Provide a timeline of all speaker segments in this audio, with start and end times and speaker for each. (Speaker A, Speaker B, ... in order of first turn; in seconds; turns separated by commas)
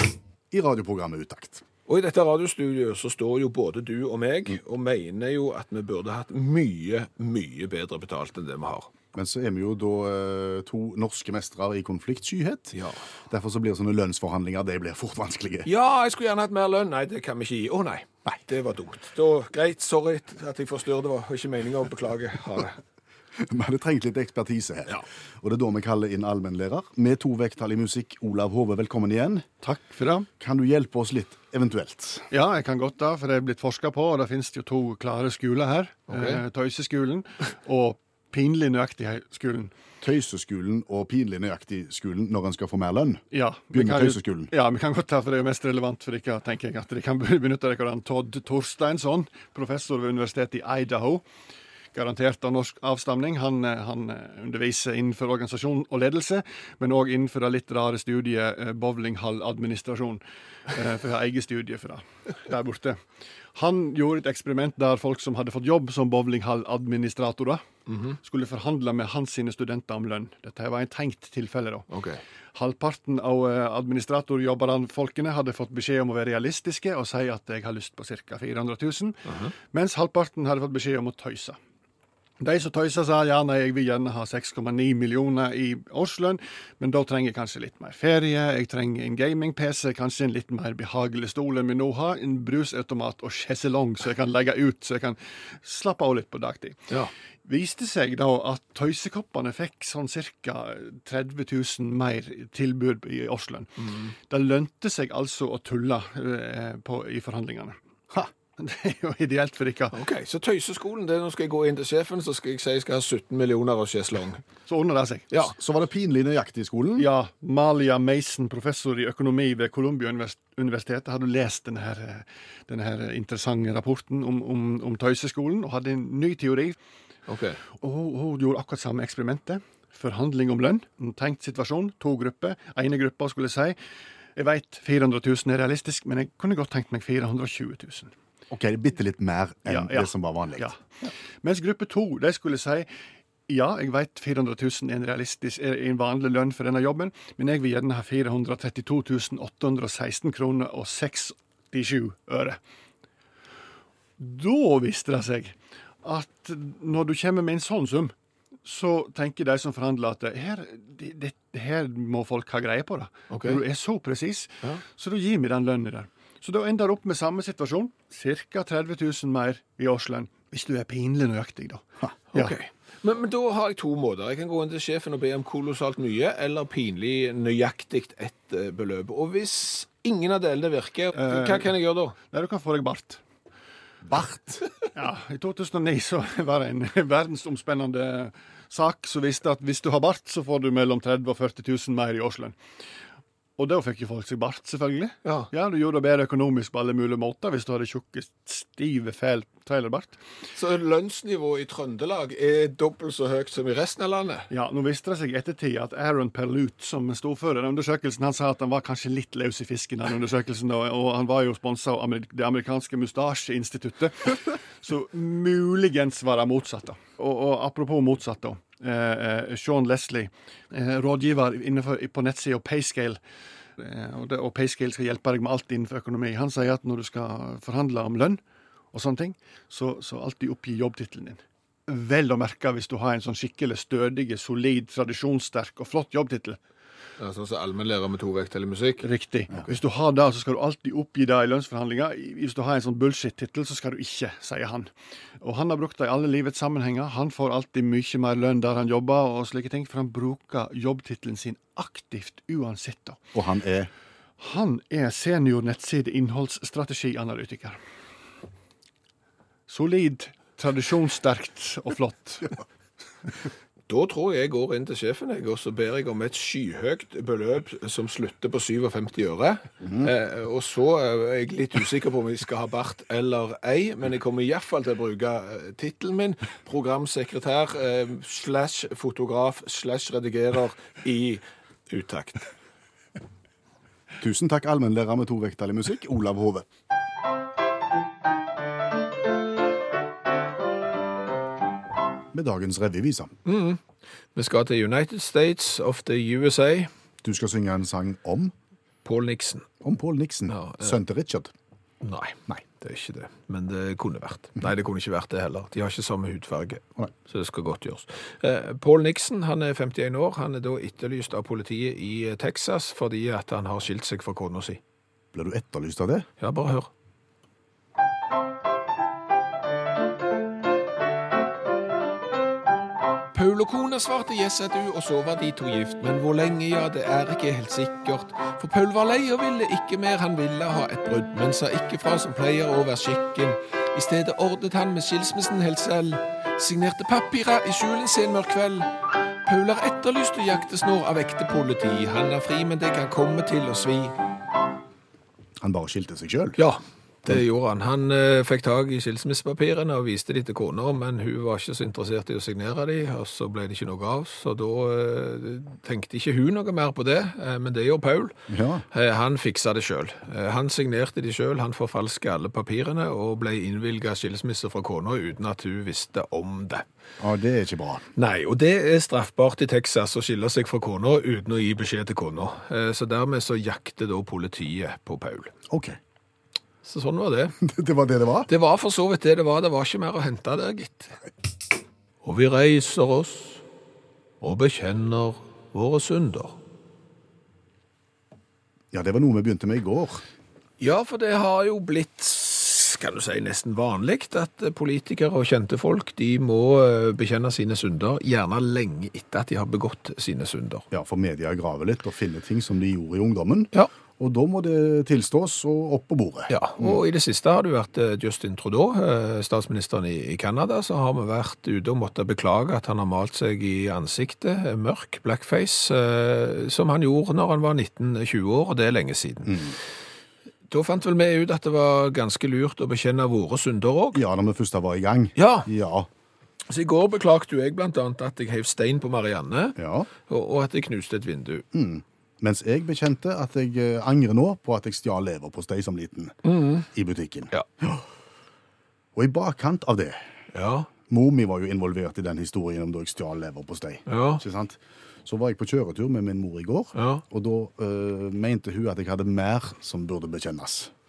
Speaker A: 0.5-1.6, Speaker B: 1.9-8.9, Speaker A: 9.1-12.8, Speaker B: 12.7-13.0, Speaker A: 13.3-15.7, Speaker B: 15.7-22.8, Speaker A: 23.4-29.5, Speaker C: 29.6-30.3, Speaker A: 30.4-32.3, Speaker C: 32.3-39.7, Speaker B: 36.1-36.4, Speaker A: 40.0-43.2, Speaker C: 43.3-51.2, Speaker A: 43.7-44.5, Speaker C: 51.9-63.0, Speaker C: 63.5-67.6, Speaker B: 67.9-68.2, Speaker C: 68.2-71.9, Speaker B: 71.9-72.2, Speaker C: 72.5-81.6, Speaker B: 79.3-79.5, Speaker C: 82.4-96.9, Speaker C: 97.5-107.8, Speaker B: 103.8-104.1, Speaker C: 108.6-110.0, Speaker B: 109.9-114.4, Speaker C: 114.7-115.3, Speaker A: 115.5-117.1, Speaker C: 117.0-126.8, Speaker B: 127.3-127.6, Speaker C: 127.7-133.8, Speaker C: 134.4-138.1, Speaker A: 138.5-141.1, Speaker C: 139.7-140.8, Speaker C: 141.4-142.9, Speaker C: 143.5-152.6, Speaker C: 154.2-158.1, Speaker C: 158.6-172.6, Speaker B: 163.3-163.6, Speaker B: 172.3-182.2, Speaker C: 181.2-183.2, Speaker A: 184.1-184.7, Speaker C: 184.9-192.6, Speaker C: 193.6-200.2, Speaker B: 195.2-195.5, Speaker B: 200.6-204.5, Speaker C: 204.5-223.2, Speaker C: 223.8-228.4, Speaker C: 228.9-236.6, Speaker B: 237.2-239.1, Speaker C: 239.0-244.9, Speaker C: 245.4-253.2, Speaker A: 253.3-253.9, Speaker C: 254.4-257.8, Speaker C: 259.7-262.6, Speaker B: 263.9-282.5, Speaker A: 269.8-270.1, Speaker A: 284.2-286.7, Speaker A: 292.3-293.3, Speaker B: 293.4-293.8, Speaker B: 294.4-296.9, Speaker A: 297.2-298.5, Speaker B: 299.1-299.7, Speaker A: 299.8-301.5, Speaker B: 300.5-301.0, Speaker B: 302.0-314.8, Speaker A: 315.3-316.3, Speaker B: 316.4-316.9, Speaker B: 323.3-338.9, Speaker B: 339.4-344.1, Speaker A: 345.6-346.6, Speaker B: 346.6-358.4, Speaker A: 358.5-358.9, Speaker B: 358.9-366.9, Speaker A: 367.2-368.1, Speaker B: 368.2-375.5, Speaker A: 375.7-376.0, Speaker B: 376.8-377.6, Speaker A: 377.6-378.5, Speaker B: 378.5-381.2, Speaker B: 382.2-383.6, Speaker B: 384.4-386.6, Speaker A: 388.9-390.2, Speaker B: 390.8-400.9, Speaker A: 400.9-407.0, Speaker B: 406.5-419.7, Speaker A: 419.5-419.8, Speaker B: 420.7-424.2, Speaker A: 424.1-426.1, Speaker B: 425.4-425.7, Speaker B: 426.7-431.7, Speaker A: 429.8-430.1, Speaker A: 431.7-438.0, Speaker B: 436.4-436.9, Speaker A: 439.1-440.2, Speaker B: 440.5-440.9, Speaker A: 441.1-450.9, Speaker B: 444.1-444.4, Speaker B: 446.9-447.2